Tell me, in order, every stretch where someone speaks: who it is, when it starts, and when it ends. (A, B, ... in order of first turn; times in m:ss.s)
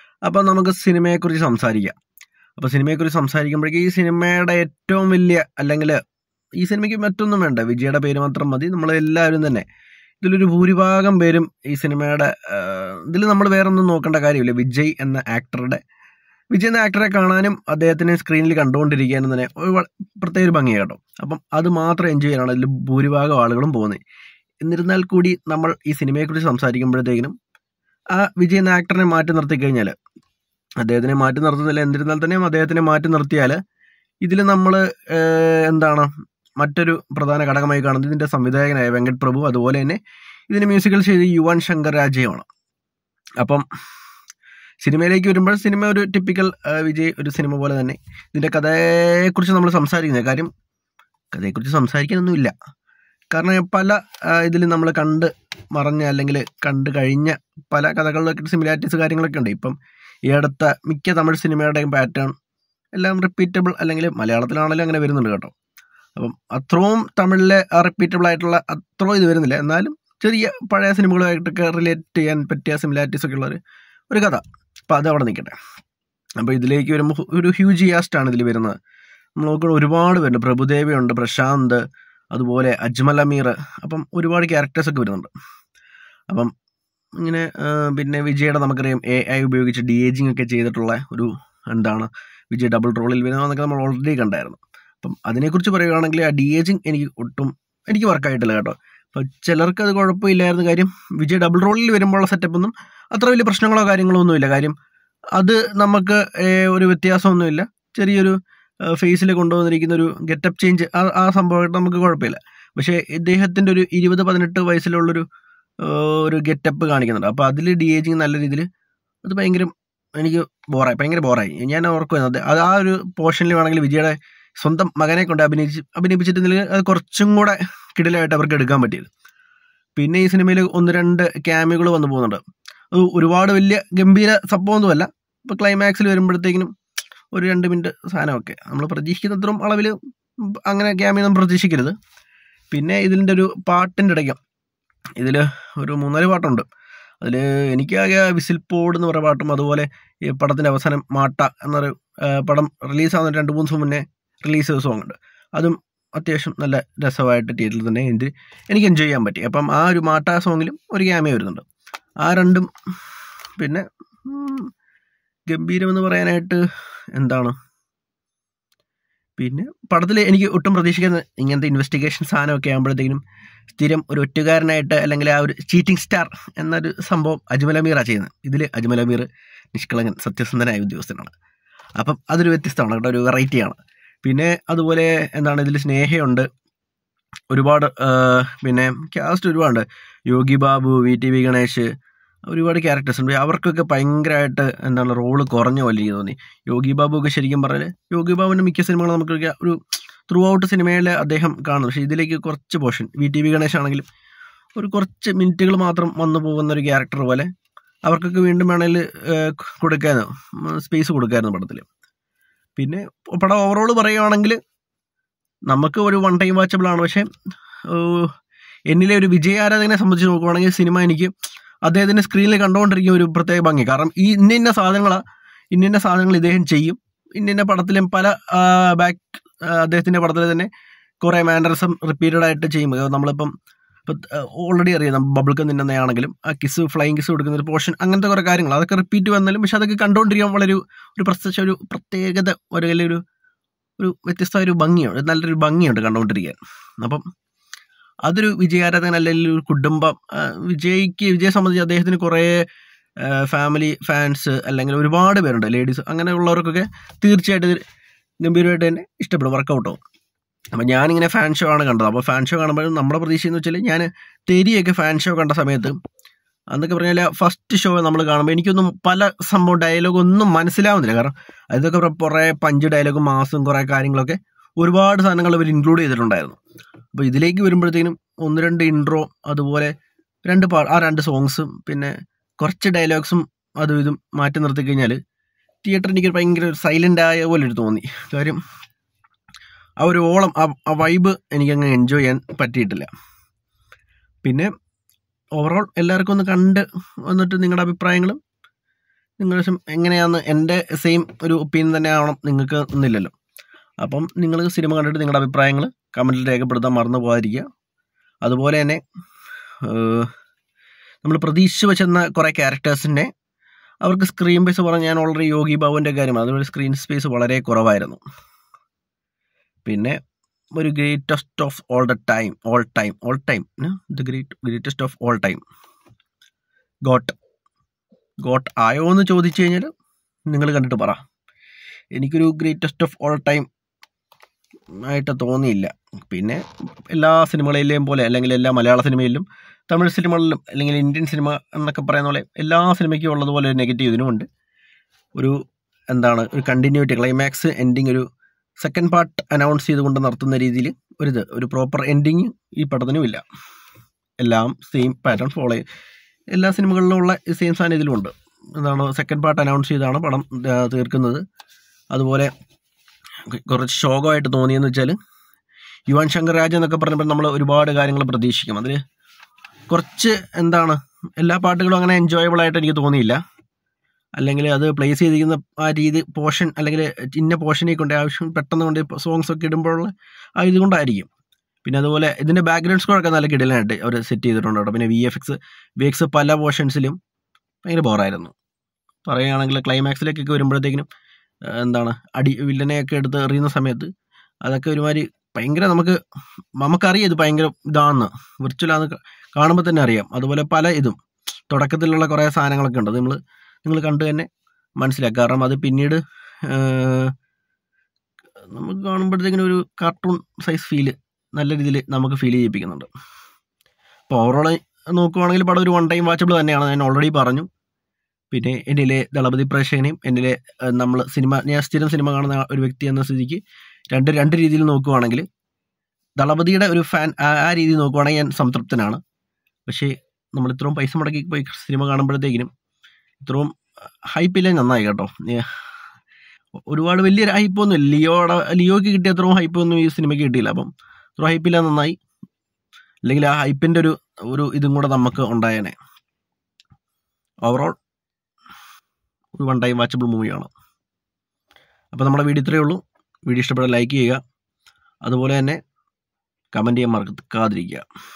0:00.3-0:01.9 A
0:02.6-0:06.0 A
0:06.6-0:09.6 A
0:10.2-0:15.8 A
0:16.5-0:24.0 A
0:24.6-0:27.4 A
0:28.2-0:29.9 A
0:30.8-0:33.6 A
0:34.2-0:36.1 A
0:36.6-0:40.0 A
0:40.5-0:42.5 A
0:44.8-0:50.5 A
0:51.3-0:52.5 A
0:53.3-0:59.7 A
1:00.3-1:02.3 A
1:03.0-1:05.5 A
1:06.2-1:13.6 A
1:14.1-1:15.6 A
1:16.4-1:18.8 A
1:19.4-1:21.8 A
1:22.3-1:25.3 A
1:27.2-1:44.8 A
1:45.4-1:48.4 A
1:48.9-1:55.2 A
1:55.8-1:58.7 A
1:59.2-2:09.1 A
2:10.0-2:12.4 A
2:12.9-2:16.7 A
2:17.3-2:19.9 A
2:20.4-2:22.0 A
2:22.7-2:24.4 A
2:25.2-2:26.6 A
2:27.2-2:41.6 A
2:42.2-2:42.7 A
2:43.6-2:44.7 A
2:45.5-2:46.6 A
2:47.2-2:47.5 A
2:49.4-2:53.2 A
2:53.7-3:01.3 A
3:02.0-3:06.5 A
3:07.5-3:11.9 A
3:12.5-3:24.1 A
3:24.8-3:27.5 A
3:28.1-3:31.9 A
3:32.8-3:34.6 A
3:35.7-3:37.3 A
3:37.9-3:38.3 A
3:38.9-3:41.3 A
3:41.9-3:45.2 A
3:45.7-3:50.7 A
3:51.2-3:53.5 A
3:54.1-4:03.2 A
4:04.0-4:07.2 A
4:08.3-4:12.6 A
4:13.2-4:17.8 A
4:18.4-4:20.0 A
4:20.8-4:26.0 A
4:26.7-4:36.6 A
4:37.2-4:39.9 A
4:40.4-4:45.2 A
4:45.8-4:48.6 A
4:50.0-4:53.1 A
4:54.4-4:54.7 A
4:55.6-4:58.4 A
4:59.4-5:03.3 A
5:04.0-5:07.7 A
5:08.4-5:09.0 A
5:09.9-5:10.3 A
5:11.2-5:13.3 A
5:14.0-5:18.2 A
5:19.9-5:20.2 A
5:20.8-5:25.6 A
5:27.1-5:27.4 A
5:28.4-5:29.9 A
5:30.5-5:31.2 A
5:32.2-5:33.7 A
5:35.1-5:44.5 A
5:46.1-5:48.3 A
5:48.8-5:53.4 A
5:54.4-5:55.8 A
5:56.5-6:01.4 A
6:02.1-6:02.5 A
6:03.5-6:05.2 A
6:06.1-6:09.0 A
6:09.9-6:13.4 A
6:14.4-6:21.3 A
6:21.8-6:27.2 A
6:27.8-6:28.5 A
6:29.2-6:31.1 A
6:31.7-6:34.1 A
6:34.7-6:36.2 A
6:36.8-6:41.2 A
6:41.7-6:44.5 A
6:45.0-6:47.3 A
6:48.7-6:53.1 A
6:54.3-6:57.7 A
6:58.5-7:03.6 A
7:04.1-7:05.4 A
7:06.4-7:09.2 A
7:09.9-7:12.7 A
7:13.4-7:13.7 A
7:14.3-7:15.7 A
7:16.9-7:22.2 A
7:23.3-7:26.0 A
7:27.7-7:28.0 A
7:29.6-7:30.7 A
7:32.1-7:34.4 A
7:35.3-7:35.8 A
7:36.7-7:38.0 A